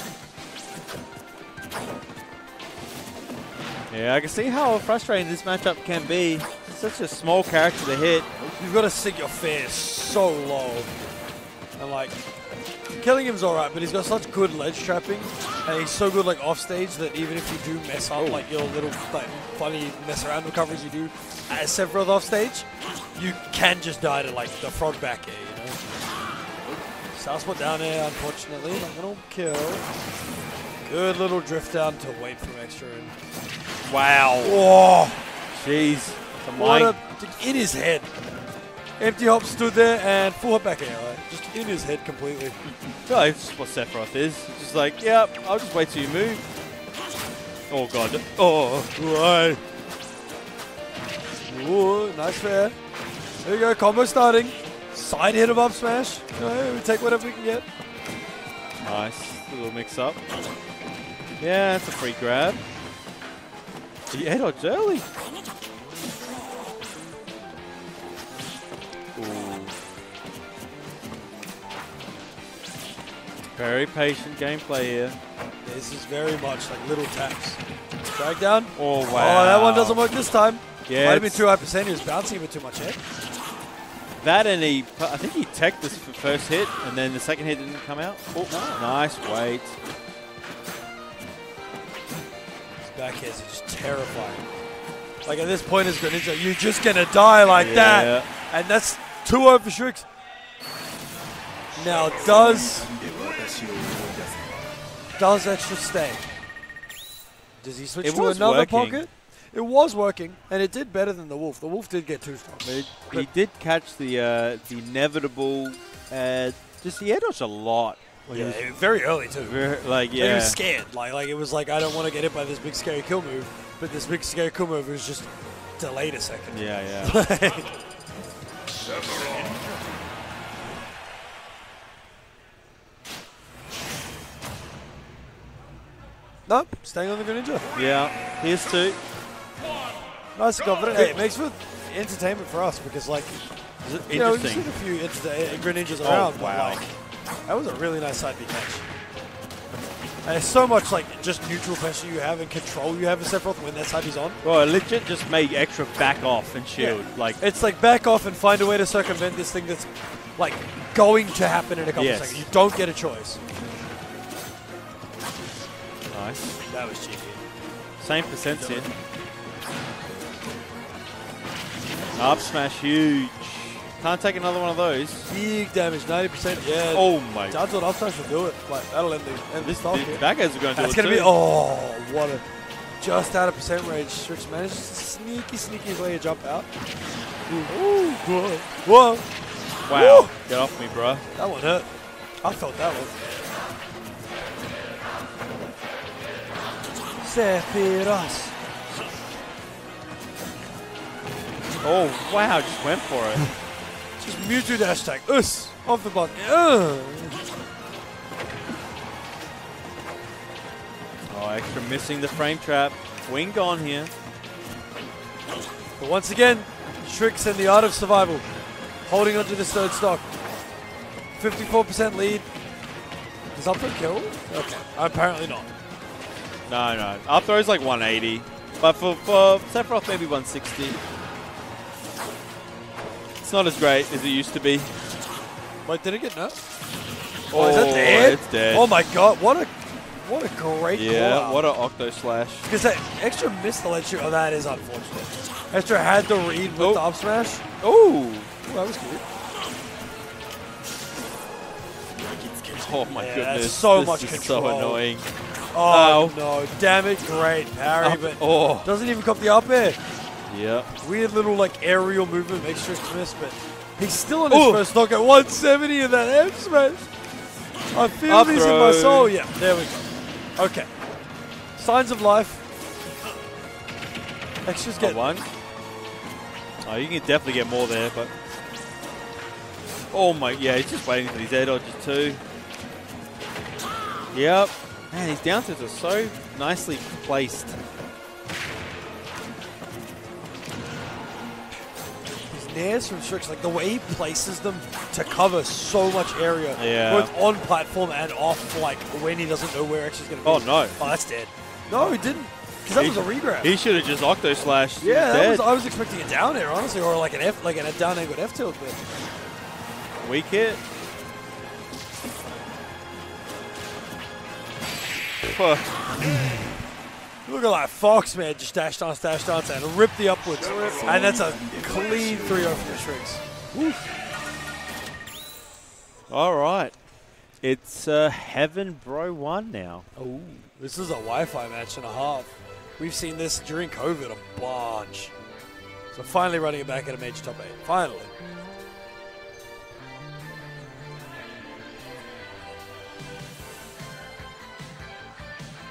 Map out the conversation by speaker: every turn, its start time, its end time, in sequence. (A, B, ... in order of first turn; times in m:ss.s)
0:03.9-0:08.3 A
0:08.5-0:10.9 B
0:11.8-0:12.2 B
0:13.0-0:25.8 B
0:18.2-0:18.4 A
0:27.1-0:29.9 B
0:30.8-0:33.1 B
0:33.8-0:34.6 A
0:34.4-0:35.2 B
0:35.5-0:37.0 A
0:36.5-0:38.1 B
0:39.0-0:42.6 B
0:43.1-0:46.5 A
0:47.7-0:48.9 A
0:49.0-0:49.6 B
0:51.5-0:52.8 B
0:53.4-0:57.6 B
0:58.8-1:00.2 A
1:01.4-1:02.6 A
1:04.1-1:05.1 A
1:09.2-1:09.8 A
1:13.6-1:15.2 A
1:15.6-1:23.0 B
1:18.8-1:20.0 A
1:20.9-1:21.4 A
1:24.2-1:29.8 A
1:28.5-1:28.8 B
1:32.8-1:34.5 B
1:35.2-1:40.1 B
1:37.5-1:38.3 A
1:41.8-1:43.0 B
1:45.2-1:46.3 B
1:47.6-1:53.3 B
1:48.0-1:49.0 A
1:52.6-1:58.6 A
1:58.3-1:59.6 B
1:59.4-2:00.6 A
2:00.1-2:07.7 B
2:06.5-2:07.2 A
2:16.5-2:17.7 B
2:17.8-2:19.0 A
2:20.4-2:23.5 B
2:23.8-2:24.7 A
2:24.1-2:26.9 B
2:26.0-2:26.8 A
2:27.5-2:28.9 B
2:30.2-2:34.4 B
2:34.4-2:37.4 A
2:36.8-2:43.4 B
2:42.0-2:42.4 A
2:46.1-2:46.5 A
2:46.7-2:47.4 B
2:48.0-2:48.9 A
2:52.1-2:55.3 A
2:55.3-3:02.4 B
2:56.9-2:57.6 A
2:59.6-3:01.3 A
3:03.0-3:06.7 B
3:07.5-3:09.2 B
3:07.7-3:08.0 A
3:09.8-3:11.2 A
3:09.9-3:10.3 B
3:11.4-3:11.9 B
3:12.4-3:13.1 B
3:17.2-3:18.5 B
3:21.8-3:23.5 A
3:24.2-3:27.4 B
3:31.3-3:34.1 A
3:36.0-3:38.5 B
3:39.1-3:40.2 B
3:41.4-3:42.5 B
3:43.5-3:45.7 B
3:46.7-3:51.0 A
3:53.4-3:55.0 A
3:55.8-3:56.6 B
3:57.5-3:58.9 A
3:57.5-4:01.7 B
4:00.9-4:02.7 A
4:02.6-4:07.6 B
4:06.8-4:07.0 A
4:07.8-4:08.5 A
4:08.6-4:09.2 B
4:12.7-4:15.3 A
4:13.1-4:15.0 B
4:15.7-4:20.0 B
4:15.8-4:16.4 A
4:18.0-4:18.9 A
4:20.5-4:20.9 A
4:21.0-4:27.1 B
4:24.5-4:24.8 A
4:27.9-4:30.9 B
4:28.2-4:29.3 A
4:31.8-4:32.6 B
4:34.6-4:35.2 B
4:35.0-4:35.5 A
4:36.8-4:38.3 A
4:40.1-4:42.4 A
4:44.3-4:47.8 A
4:52.5-5:03.7 B
4:56.8-4:57.3 A
5:00.4-5:01.0 A
5:02.9-5:05.6 A
5:05.0-5:09.0 B
5:10.2-5:10.8 A
5:15.5-5:16.0 A
5:17.5-5:23.4 B
5:23.7-5:24.0 A
5:26.3-5:26.9 A
5:27.6-5:30.0 A
5:30.2-5:35.3 B
5:36.1-5:38.3 B